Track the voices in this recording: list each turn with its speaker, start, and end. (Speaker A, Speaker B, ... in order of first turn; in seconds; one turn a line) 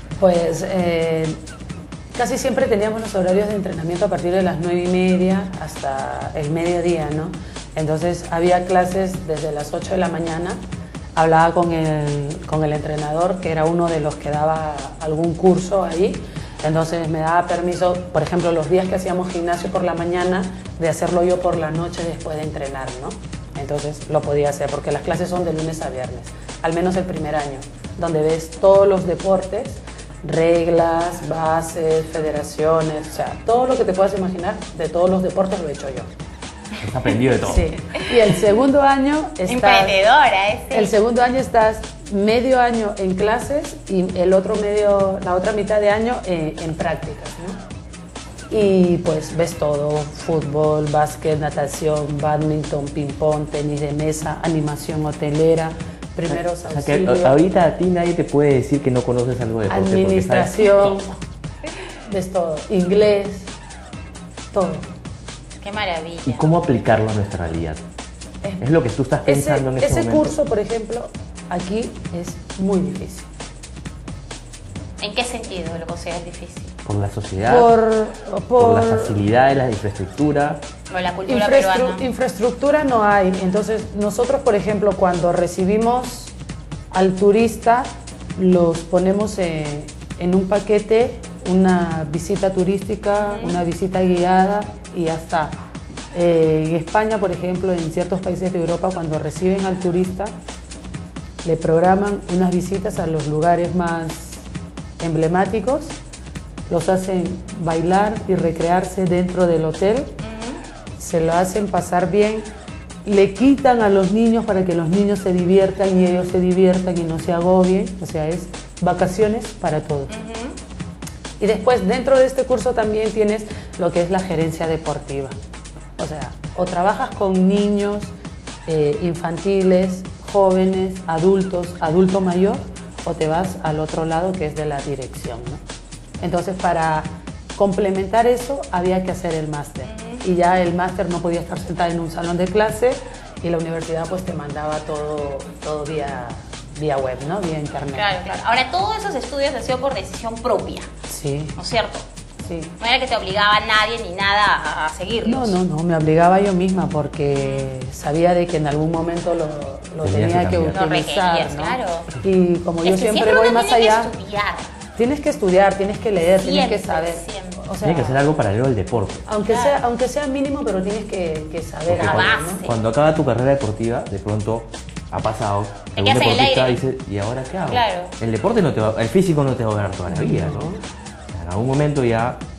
Speaker A: 0.2-1.4
Speaker A: 2.1-10.6
Speaker A: 11.2-36.1
Speaker B: 36.8-37.7
Speaker A: 37.4-40.0
Speaker C: 38.0-38.4
Speaker C: 39.5-40.9
Speaker A: 40.7-47.6
Speaker A: 48.5-57.4
Speaker B: 56.3-61.0
Speaker A: 59.7-61.2
Speaker A: 62.0-63.5
Speaker A: 64.5-64.9
Speaker C: 65.5-66.5
Speaker B: 66.2-67.8
Speaker B: 68.6-70.3
Speaker A: 69.3-73.3
Speaker C: 75.0-76.7
Speaker B: 76.8-77.7
Speaker A: 77.4-79.2
Speaker B: 78.6-80.6
Speaker C: 80.9-82.1
Speaker A: 81.3-86.3
Speaker A: 86.9-95.5
Speaker C: 93.2-93.6
Speaker A: 96.1-100.3
Speaker A: 101.4-104.4
Speaker A: 105.0-106.0
Speaker A: 106.7-110.2
Speaker C: 110.2-110.6
Speaker A: 111.0-112.5
Speaker A: 113.0-120.1
Speaker C: 120.1-120.6
Speaker A: 121.4-125.4
Speaker A: 126.0-128.1
Speaker A: 128.7-135.6
Speaker A: 136.2-148.1
Speaker C: 139.8-140.2
Speaker C: 147.9-150.9
Speaker A: 151.1-151.6
Speaker C: 151.6-152.1
Speaker A: 152.4-152.7
Speaker C: 152.8-155.6
Speaker A: 155.2-164.1
Speaker C: 157.3-157.7
Speaker B: 160.0-160.8
Speaker C: 160.7-162.1
Speaker C: 162.8-164.7
Speaker A: 165.0-168.2
Speaker C: 166.2-167.6
Speaker B: 167.8-169.2
Speaker A: 169.3-172.6
Speaker C: 169.5-169.8
Speaker B: 171.9-180.7
Speaker C: 171.9-172.8
Speaker C: 175.9-176.8
Speaker C: 177.7-178.1
Speaker A: 180.1-180.8
Speaker B: 181.3-182.4